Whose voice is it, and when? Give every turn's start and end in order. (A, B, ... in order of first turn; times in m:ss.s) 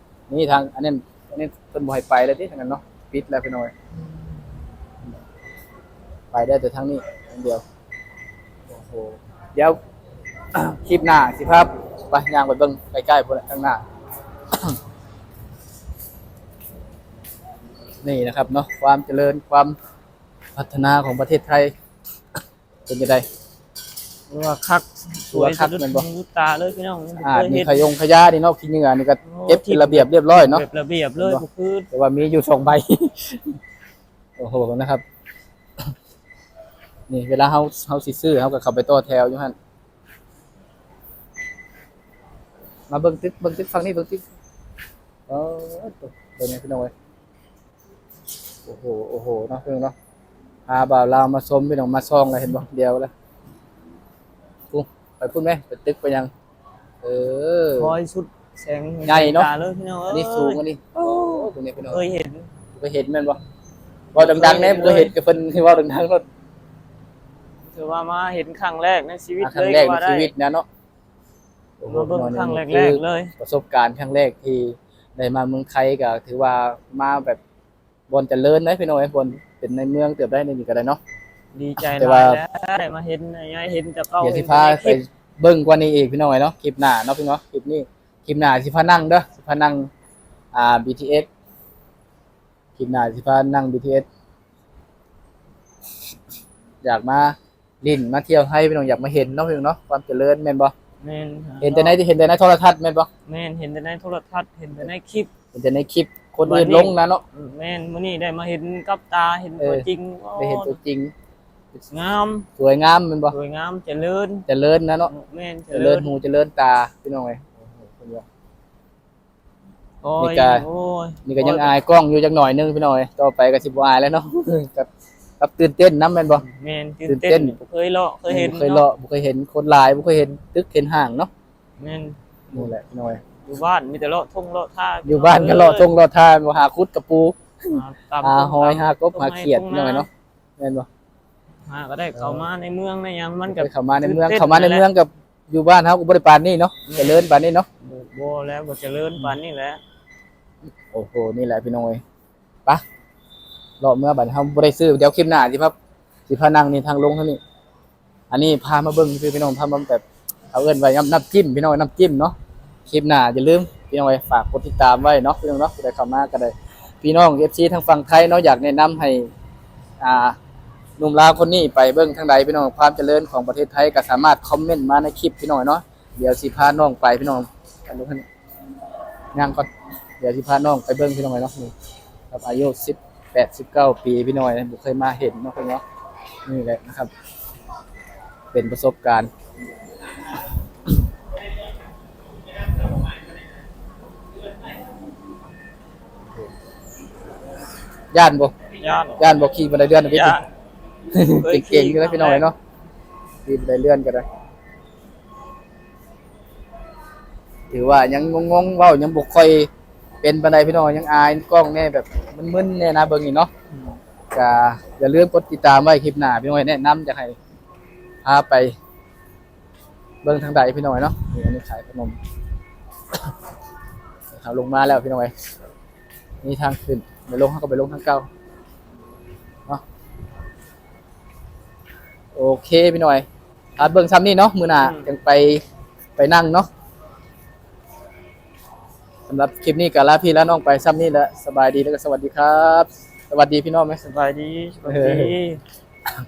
0:00.3-0:03.7 A
0:06.3-0:07.6 A
0:08.7-0:09.8 A
0:10.5-0:13.8 A
0:18.0-0:19.8 A
0:20.6-0:21.7 A
0:22.9-0:23.2 A
0:24.3-0:27.9 B
0:25.3-0:26.1 A
0:27.2-0:30.6 A
0:29.2-0:31.9 B
0:31.2-0:33.6 A
0:34.4-0:35.0 A
0:37.1-0:39.5 A
0:42.9-0:44.2 A
0:45.3-0:46.9 A
0:48.7-0:49.9 A
0:50.7-0:53.1 A
0:54.7-0:56.3 A
0:57.0-0:57.9 A
0:57.8-1:02.5 B
0:59.0-0:59.5 A
1:00.1-1:02.0 A
1:02.8-1:03.4 A
1:04.2-1:05.2 B
1:04.2-1:06.2 A
1:07.7-1:10.3 B
1:09.4-1:10.6 A
1:11.8-1:17.4 A
1:11.9-1:13.3 B
1:18.1-1:21.0 A
1:21.5-1:25.0 B
1:21.8-1:22.4 A
1:24.2-1:29.9 A
1:30.5-1:31.3 A
1:32.8-1:34.1 A
1:36.8-1:40.7 A
1:41.0-1:42.0 B
1:41.6-1:43.1 A
1:43.3-1:45.3 B
1:45.5-1:47.2 A
1:46.4-1:50.8 B
1:49.6-1:49.9 A
1:50.4-1:51.1 A
1:51.9-1:52.5 B
1:52.6-1:53.4 A
1:53.3-1:54.4 B
1:54.5-1:55.1 A
1:55.1-1:56.1 B
1:55.7-1:58.2 A
2:00.0-2:01.7 B
2:00.2-2:00.6 A
2:01.2-2:04.9 A
2:05.4-2:06.4 A
2:06.4-2:08.9 B
2:07.1-2:07.6 A
2:08.3-2:11.3 A
2:11.8-2:12.7 B
2:12.5-2:13.2 A
2:13.5-2:15.9 B
2:15.0-2:20.1 A
2:17.7-2:20.1 B
2:20.6-2:20.9 A
2:21.7-2:24.9 B
2:22.2-2:22.5 A
2:23.5-2:27.7 A
2:26.9-2:27.3 B
2:27.8-2:29.8 B
2:30.9-2:32.0 A
2:33.8-2:35.7 A
2:36.3-2:37.4 A
2:38.3-2:42.4 A
2:42.9-2:49.3 A
2:50.0-2:50.4 A
2:51.0-2:58.2 A
2:59.3-2:59.7 A
3:00.2-3:01.7 A
3:02.3-3:05.8 A
3:06.5-3:07.1 A
3:08.5-3:09.3 A
3:18.1-3:18.5 A
3:18.8-3:19.3 B
3:19.2-3:20.4 A
3:20.1-3:20.4 B
3:21.1-3:22.6 A
3:21.4-3:22.5 B
3:23.5-3:24.2 A
3:27.7-3:29.7 A
3:30.2-3:33.5 A
3:34.3-3:37.4 A
3:38.2-3:38.8 A
3:40.2-3:42.2 A
3:44.3-3:45.3 A
3:46.4-3:48.3 A
3:52.4-3:53.2 A
3:53.8-3:55.6 A
3:54.8-3:55.1 B
3:56.2-3:56.7 A
3:59.3-4:04.0 A
4:04.0-4:05.6 B
4:04.9-4:05.3 A